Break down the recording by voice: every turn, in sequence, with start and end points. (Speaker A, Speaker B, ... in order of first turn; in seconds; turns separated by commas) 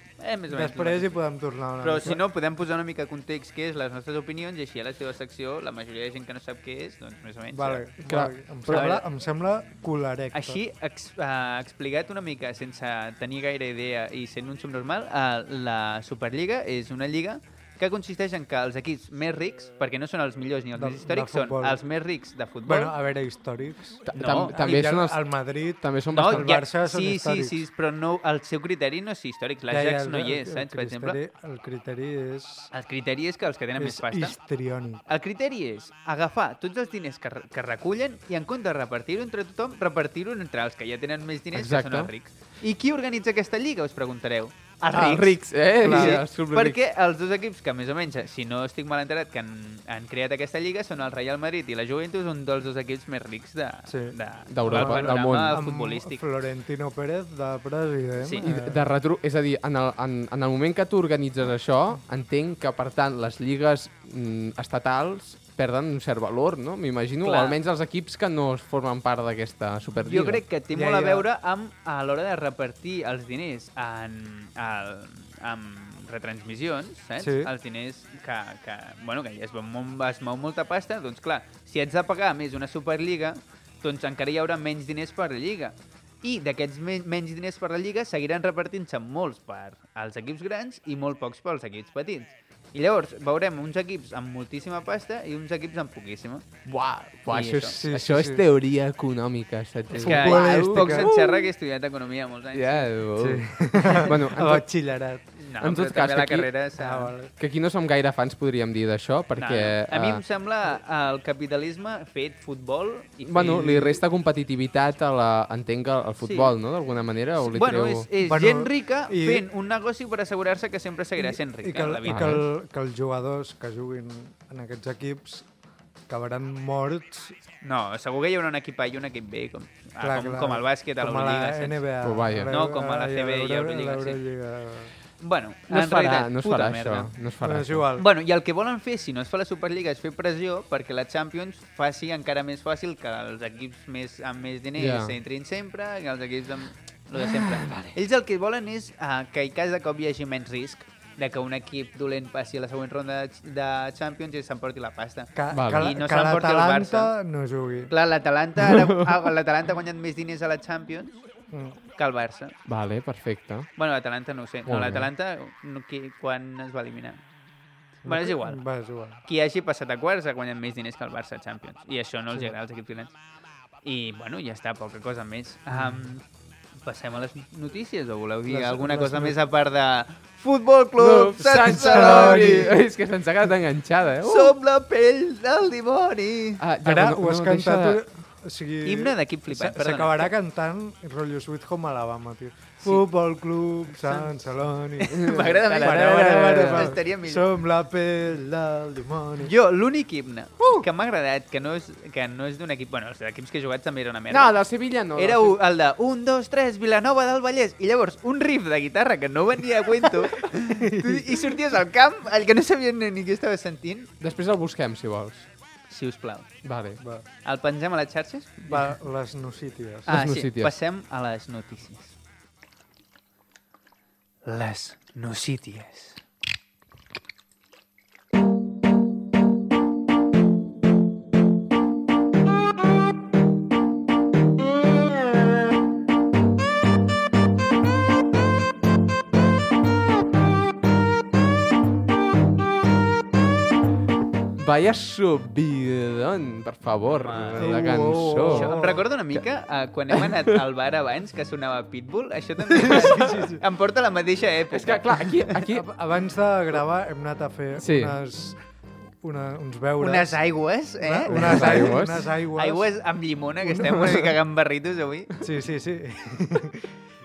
Speaker A: 0.2-1.2, Speaker B: 0.5-2.2, Speaker A: 1.8-7.9, Speaker B: 7.5-10.6, Speaker C: 8.1-8.9, Speaker A: 8.7-9.0, Speaker A: 10.3-22.9, Speaker B: 20.8-21.8, Speaker B: 22.7-27.6, Speaker C: 24.1-26.5, Speaker A: 24.1-24.6, Speaker A: 26.1-31.2, Speaker B: 29.7-32.7, Speaker A: 32.7-34.4, Speaker B: 33.8-35.0, Speaker A: 35.1-56.2, Speaker C: 41.5-42.1, Speaker C: 44.9-46.8, Speaker B: 44.9-45.3, Speaker B: 45.8-46.2, Speaker B: 53.9-58.8, Speaker C: 54.5-55.6, Speaker A: 58.2-58.5, Speaker C: 58.4-70.5, Speaker A: 67.2-67.6, Speaker A: 70.0-96.6, Speaker B: 70.7-71.3, Speaker B: 77.2-77.5, Speaker C: 96.7-101.5, Speaker A: 97.3-97.8, Speaker B: 97.7-98.4, Speaker B: 99.9-101.1, Speaker A: 100.0-102.9, Speaker C: 102.5-104.7, Speaker B: 103.2-105.3, Speaker A: 105.3-107.1, Speaker C: 105.6-106.5, Speaker B: 106.8-107.3, Speaker C: 107.4-110.2, Speaker A: 109.4-113.8, Speaker C: 113.3-118.1, Speaker B: 113.4-114.0, Speaker A: 116.2-116.6, Speaker A: 117.4-122.5, Speaker B: 118.2-119.4, Speaker B: 121.2-125.5, Speaker C: 122.1-122.4, Speaker B: 126.1-127.4, Speaker A: 127.6-131.9, Speaker B: 130.0-134.9, Speaker C: 132.0-132.6, Speaker A: 132.4-134.2, Speaker A: 135.2-137.1, Speaker C: 135.7-137.9, Speaker B: 137.4-138.1, Speaker A: 138.0-157.1, Speaker C: 144.8-145.2, Speaker C: 147.1-148.0, Speaker B: 155.3-157.9, Speaker C: 155.5-156.0, Speaker A: 157.9-161.2, Speaker B: 161.5-161.8, Speaker A: 161.8-162.6, Speaker C: 162.7-163.7, Speaker A: 163.8-167.2, Speaker C: 164.7-165.1, Speaker A: 168.1-168.6, Speaker B: 168.1-169.2, Speaker A: 169.2-173.1, Speaker A: 173.8-176.2, Speaker A: 176.8-182.7, Speaker B: 178.5-179.4, Speaker C: 181.0-184.5, Speaker B: 181.4-182.8, Speaker A: 184.2-186.6, Speaker C: 186.6-188.0, Speaker B: 186.8-199.5, Speaker A: 188.8-190.3, Speaker A: 193.9-194.3, Speaker A: 195.0-197.4, Speaker C: 195.1-197.0, Speaker A: 199.4-204.6, Speaker C: 204.3-205.6, Speaker A: 205.1-214.1, Speaker B: 210.7-211.5, Speaker C: 214.2-215.5, Speaker A: 215.9-216.6, Speaker C: 216.6-217.0, Speaker B: 217.0-217.3, Speaker A: 217.4-218.9, Speaker B: 218.7-220.2, Speaker A: 220.1-222.2, Speaker C: 220.1-220.7, Speaker A: 224.4-226.2, Speaker C: 244.6-248.7, Speaker A: 247.1-255.7, Speaker B: 247.6-249.1, Speaker C: 250.2-250.6, Speaker B: 252.8-253.6, Speaker C: 254.7-255.9, Speaker B: 255.6-258.6, Speaker C: 257.8-258.2, Speaker B: 259.2-260.5, Speaker A: 260.0-265.3, Speaker B: 261.0-262.9, Speaker C: 261.3-262.3, Speaker B: 263.6-264.3, Speaker B: 265.4-266.9